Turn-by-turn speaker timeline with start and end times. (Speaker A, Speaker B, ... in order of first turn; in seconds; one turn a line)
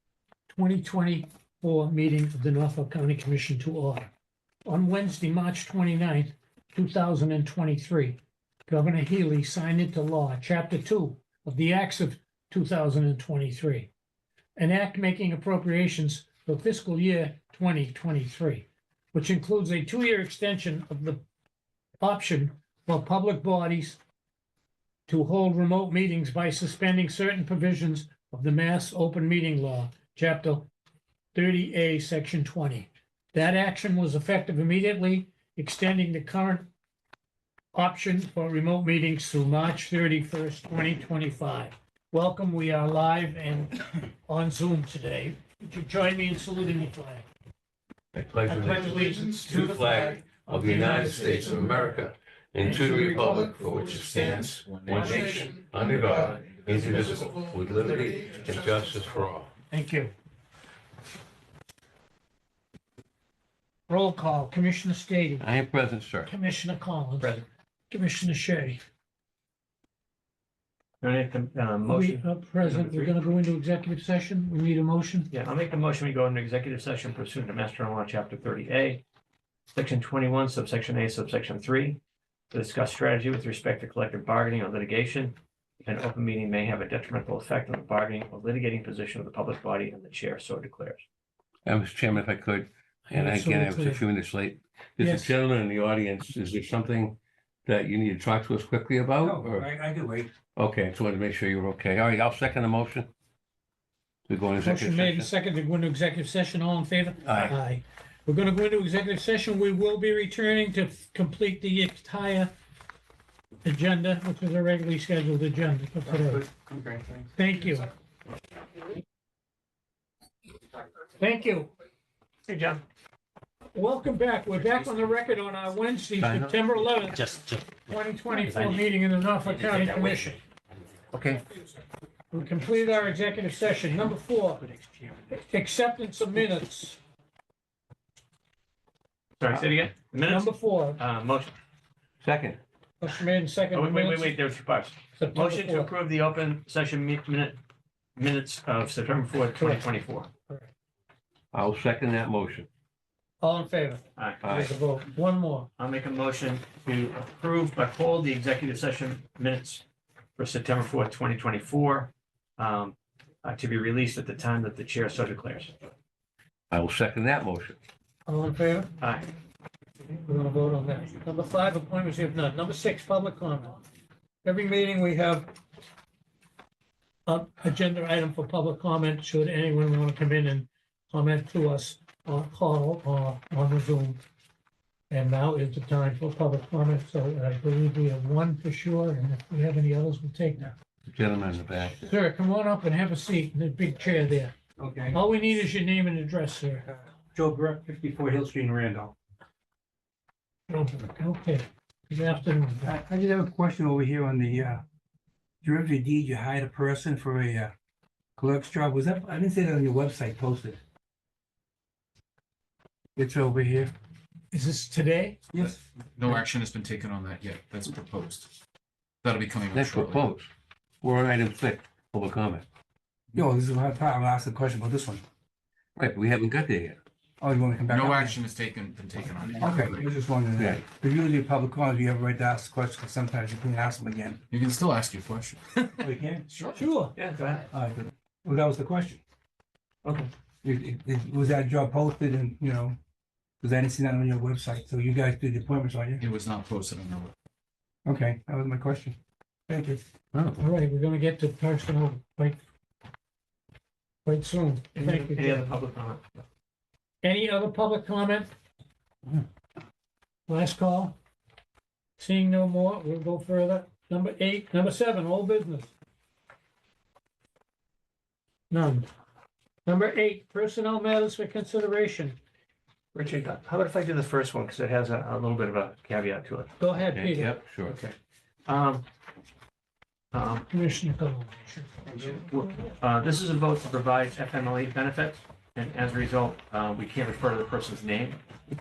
Speaker A: 0.5-4.1
Speaker A: 4.7-13.9
Speaker A: 14.6-21.2
Speaker A: 22.0-24.0
Speaker A: 25.1-30.7
Speaker A: 31.3-36.7
Speaker A: 37.7-47.2
Speaker B: 48.1-59.5
Speaker A: 48.5-51.7
Speaker C: 48.7-50.2
Speaker C: 50.7-51.8
Speaker A: 52.6-53.2
Speaker C: 52.7-59.0
Speaker D: 56.1-56.5
Speaker A: 59.7-60.1
Speaker A: 63.9-65.5
Speaker B: 65.4-66.3
Speaker A: 66.2-67.4
Speaker D: 67.2-67.5
Speaker A: 67.9-68.8
Speaker D: 71.0-73.2
Speaker A: 71.8-75.3
Speaker D: 75.3-79.0
Speaker D: 79.7-82.0
Speaker D: 82.5-91.0
Speaker B: 91.7-99.7
Speaker A: 93.1-94.0
Speaker A: 95.0-95.3
Speaker E: 99.2-100.3
Speaker B: 100.5-103.1
Speaker B: 104.3-105.3
Speaker A: 104.6-112.5
Speaker B: 107.2-107.5
Speaker A: 113.6-116.4
Speaker E: 116.0-117.3
Speaker A: 117.3-117.9
Speaker A: 121.2-121.7
Speaker A: 122.5-122.8
Speaker A: 123.7-130.4
Speaker B: 126.2-126.6
Speaker D: 127.1-127.8
Speaker D: 128.4-128.8
Speaker D: 129.5-130.3
Speaker B: 131.1-131.4
Speaker A: 132.3-134.7
Speaker D: 134.7-135.1
Speaker A: 135.3-137.0
Speaker D: 139.4-141.5
Speaker A: 140.2-141.0
Speaker B: 142.2-142.6
Speaker A: 143.0-144.3
Speaker D: 143.7-147.6
Speaker A: 145.2-145.9
Speaker D: 148.2-150.3
Speaker A: 149.6-149.8
Speaker B: 151.5-152.7
Speaker A: 153.4-155.7
Speaker D: 154.2-154.4
Speaker B: 154.4-154.7
Speaker D: 155.8-159.8
Speaker D: 160.3-165.8
Speaker B: 166.7-167.8
Speaker A: 168.3-168.9
Speaker D: 169.0-169.3
Speaker A: 170.2-173.8
Speaker A: 174.4-175.5
Speaker A: 177.3-184.2
Speaker A: 185.1-190.7
Speaker B: 191.1-192.0
Speaker A: 192.0-194.5
Speaker E: 194.8-195.2
Speaker A: 195.1-196.8
Speaker E: 196.8-199.1
Speaker A: 200.7-202.9
Speaker E: 202.8-204.8
Speaker E: 205.6-207.7
Speaker E: 208.4-210.8
Speaker E: 213.2-213.9
Speaker A: 214.5-215.4
Speaker E: 215.5-215.8
Speaker C: 216.2-218.5
Speaker C: 219.2-220.3
Speaker B: 219.7-220.5
Speaker B: 221.0-222.6
Speaker E: 223.3-225.2
Speaker B: 225.9-227.0
Speaker E: 227.4-228.4
Speaker C: 227.9-230.0
Speaker E: 229.6-234.4
Speaker B: 230.6-230.8
Speaker C: 234.5-236.0
Speaker E: 236.0-236.4
Speaker D: 236.6-237.7
Speaker A: 236.8-237.1
Speaker E: 237.7-239.2
Speaker D: 240.0-240.3
Speaker E: 240.6-243.0
Speaker E: 243.6-246.2
Speaker C: 246.2-247.3
Speaker E: 248.0-249.2
Speaker E: 249.7-250.0
Speaker B: 250.3-250.6
Speaker A: 250.6-252.6
Speaker A: 254.2-255.7
Speaker D: 255.0-256.4
Speaker A: 257.2-258.5
Speaker A: 260.5-261.1
Speaker A: 262.2-265.9
Speaker A: 268.7-269.1
Speaker A: 269.9-272.4
Speaker D: 273.1-276.7
Speaker A: 276.8-277.5
Speaker B: 277.1-277.9
Speaker D: 277.8-279.1
Speaker D: 280.3-280.7
Speaker A: 280.7-281.9
Speaker D: 282.1-288.4